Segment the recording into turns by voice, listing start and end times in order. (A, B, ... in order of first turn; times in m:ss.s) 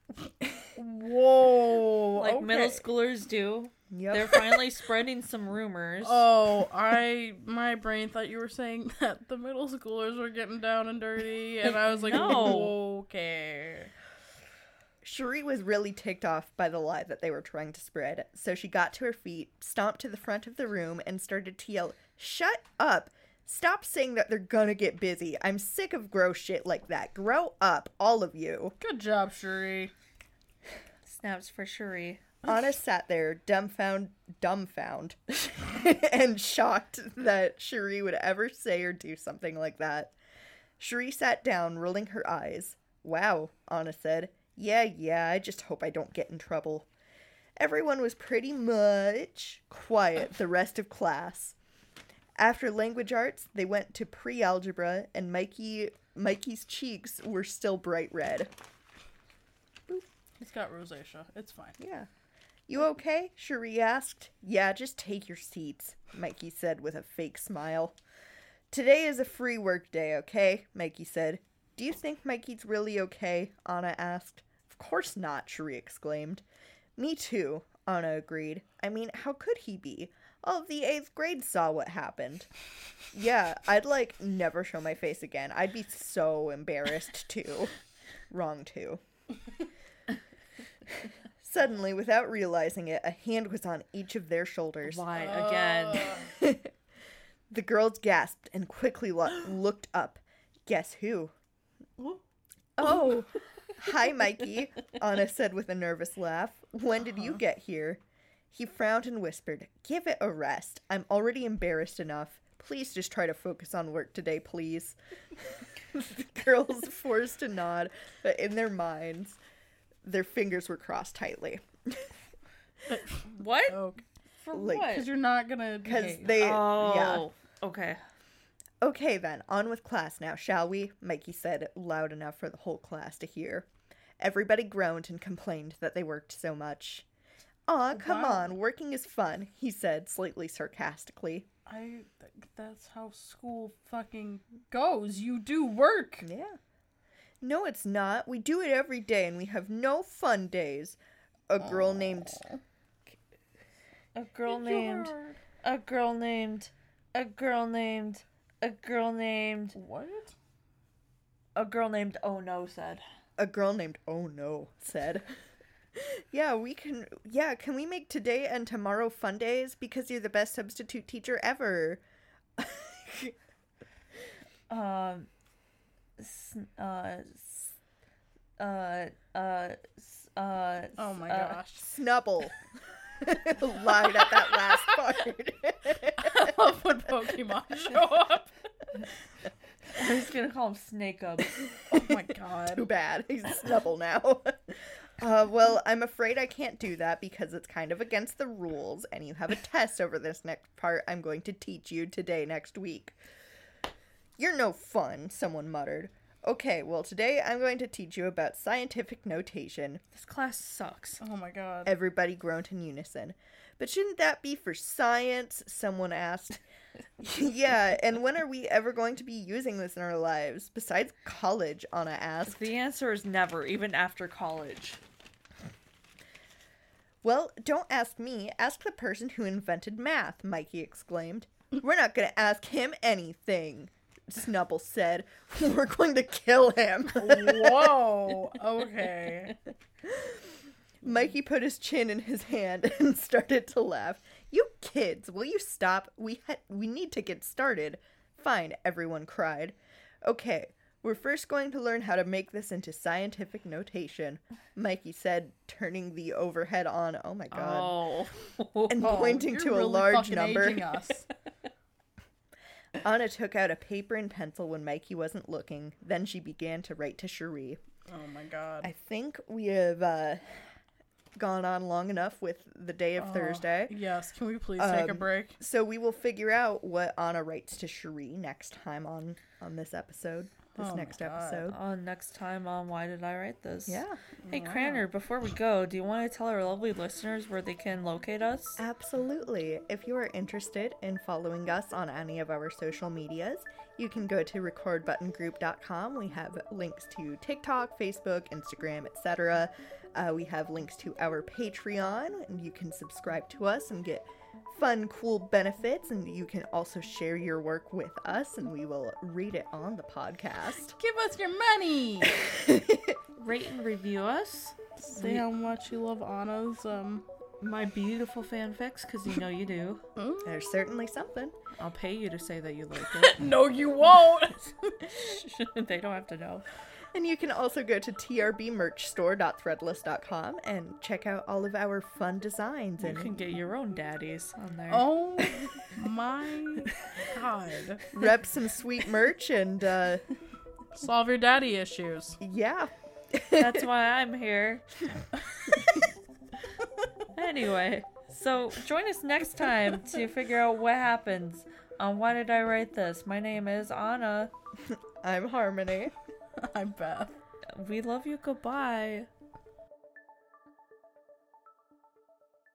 0:00.7-0:02.8 A
0:02.2-0:06.2 B
0:03.9-0:04.6 C
0:06.0-0:13.9 A
0:11.9-0:12.7 B
0:12.1-0:12.7 C
0:15.0-0:28.8 C
0:28.8-0:29.9 A
0:31.0-0:32.2 B
0:32.4-0:40.1 C
0:40.8-0:46.9 C
0:47.6-0:51.6 C
0:52.4-0:58.5 C
1:00.4-1:01.8 A
1:01.8-1:02.1 C
1:02.7-1:08.0 C
1:08.7-1:16.4 C
1:17.0-1:22.5 C
1:23.1-1:27.7 C
1:28.3-1:29.0 C
1:31.4-1:35.0 C
1:34.8-1:36.2 B
1:35.1-1:36.3 A
1:36.2-1:36.7 C
1:37.5-1:41.3 C
1:42.8-1:59.4 C
2:00.0-2:02.1 C
2:02.9-2:04.0 A
2:03.3-2:03.8 B
2:04.4-2:05.1 B
2:04.5-2:05.0 C
2:04.8-2:06.3 A
2:05.8-2:07.2 C
2:06.4-2:08.0 B
2:08.8-2:13.7 C
2:14.2-2:17.0 C
2:17.7-2:21.5 C
2:17.9-2:18.5 A
2:21.6-2:26.2 A
2:26.2-2:26.6 C
2:27.4-2:31.0 C
2:31.5-2:32.4 C
2:31.7-2:32.6 A
2:34.1-2:39.8 B
2:34.5-2:35.4 A
2:39.7-2:40.3 A
2:41.6-2:43.0 B
2:43.4-2:45.2 C
2:45.9-2:52.0 C
2:52.6-2:53.4 C
2:54.7-2:55.3 B
2:56.2-2:57.7 B
2:58.6-3:01.6 B
3:01.0-3:01.9 A
3:01.8-3:02.6 C
3:03.1-3:06.5 C
3:06.2-3:08.5 A
3:10.0-3:11.6 B
3:11.9-3:12.9 A
3:12.7-3:23.2 C
3:24.4-3:30.0 C
3:30.1-3:31.2 B
3:31.2-3:31.9 A
3:31.8-3:36.6 C
3:37.2-3:42.7 C
3:42.5-3:45.0 B
3:47.2-3:58.0 C
3:57.1-3:59.6 A
4:00.0-4:00.4 C
4:01.0-4:18.0 C
4:17.5-4:19.2 B
4:18.9-4:20.9 C
4:19.0-4:21.3 A
4:23.0-4:27.8 C
4:28.1-4:28.9 A
4:28.8-4:30.4 C
4:31.4-4:33.9 C
4:33.2-4:35.6 A
4:34.8-4:41.8 C
4:40.7-4:41.7 A
4:41.7-4:48.8 B
4:43.9-4:44.2 C
4:44.4-4:45.1 A
4:48.8-5:10.9 C
5:11.0-5:12.3 A
5:12.2-5:13.2 C
5:13.4-5:15.4 B
5:15.0-5:17.2 A
5:17.6-5:20.0 B
5:20.2-5:20.6 A
5:20.4-5:21.5 C
5:21.8-5:23.4 B
5:23.0-5:25.2 A
5:25.0-5:26.6 B
5:27.1-5:33.3 C
5:33.0-5:35.1 B
5:34.9-5:38.1 A
5:38.1-5:40.2 C
5:40.9-5:42.4 A
5:42.4-5:43.9 C
5:43.6-5:44.8 B
5:47.3-5:54.5 B
5:54.8-5:56.1 C
5:56.6-5:57.3 A
5:57.7-5:59.3 B